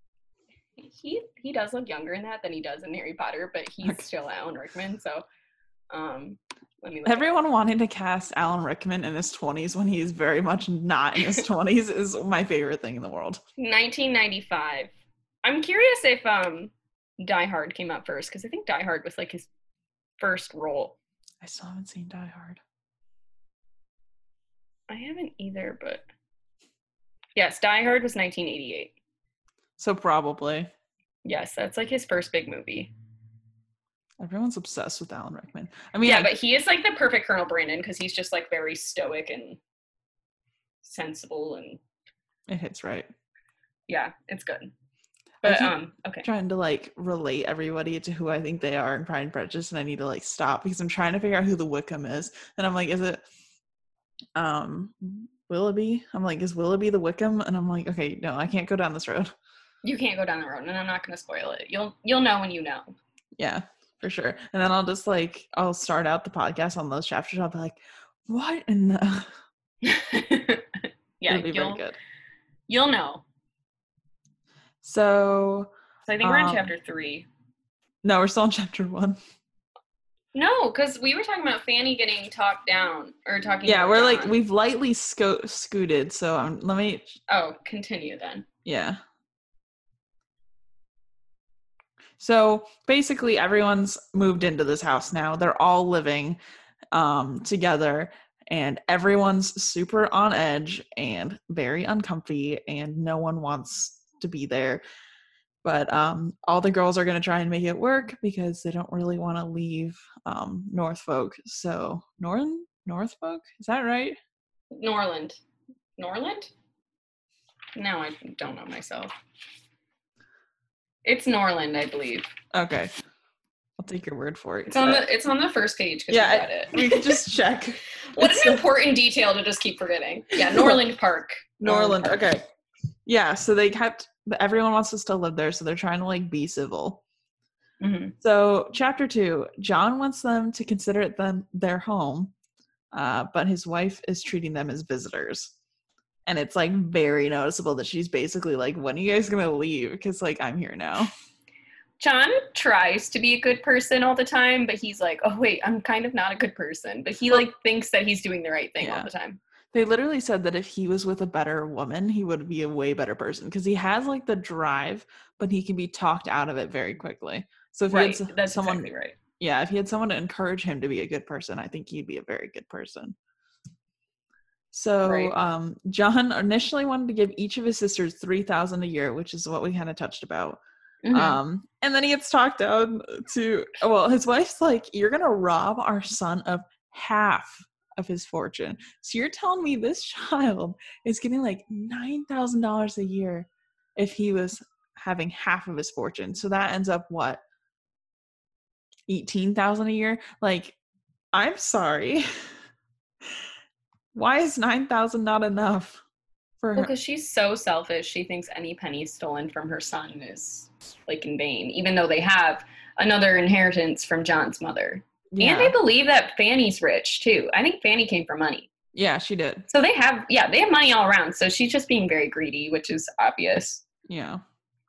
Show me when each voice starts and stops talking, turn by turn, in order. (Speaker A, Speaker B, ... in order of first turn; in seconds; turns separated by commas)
Speaker A: 0.8-5.2, Speaker A: 5.9-7.3, Speaker B: 7.0-13.4, Speaker A: 13.6-14.9, Speaker A: 15.4-19.5, Speaker A: 20.2-20.9, Speaker B: 21.4-22.6, Speaker A: 24.9-26.0, Speaker A: 27.4-28.9, Speaker B: 29.8-30.7, Speaker A: 31.2-32.9, Speaker B: 34.2-36.3, Speaker A: 36.0-39.6, Speaker A: 40.8-41.8, Speaker B: 42.5-43.1, Speaker A: 43.9-44.7, Speaker A: 45.4-46.2, Speaker B: 45.4-53.2, Speaker B: 54.4-59.3, Speaker A: 59.8-62.9, Speaker B: 63.4-69.4, Speaker A: 69.8-71.8, Speaker B: 71.3-72.0, Speaker A: 72.7-73.2, Speaker B: 74.8-75.7, Speaker A: 76.0-77.3, Speaker B: 76.2-76.7, Speaker B: 78.0-79.2, Speaker A: 80.3-84.3, Speaker B: 83.7-87.2, Speaker A: 87.3-88.5, Speaker B: 88.6-89.0, Speaker B: 92.2-96.4, Speaker B: 96.9-104.8, Speaker B: 105.6-114.2, Speaker A: 114.7-115.4, Speaker A: 116.0-116.5, Speaker A: 117.7-119.1, Speaker A: 121.0-122.3, Speaker B: 122.5-122.9, Speaker B: 123.8-125.1, Speaker A: 124.7-127.2, Speaker B: 126.1-128.6, Speaker A: 128.2-132.2, Speaker B: 130.3-130.8, Speaker B: 131.6-132.4, Speaker B: 133.1-137.0, Speaker A: 137.8-138.1, Speaker B: 138.2-142.3, Speaker B: 142.9-145.5, Speaker B: 146.2-151.1, Speaker A: 152.0-159.4, Speaker B: 158.8-159.1, Speaker B: 159.7-173.1, Speaker A: 167.9-169.2, Speaker B: 174.7-180.6, Speaker A: 175.0-175.3, Speaker A: 181.0-181.4, Speaker B: 181.1-197.4, Speaker B: 199.1-200.8, Speaker B: 201.3-202.5, Speaker B: 204.1-206.0, Speaker B: 206.6-206.9, Speaker A: 206.8-218.7, Speaker B: 215.3-215.7, Speaker B: 218.9-219.7, Speaker A: 219.7-223.8, Speaker B: 224.1-224.4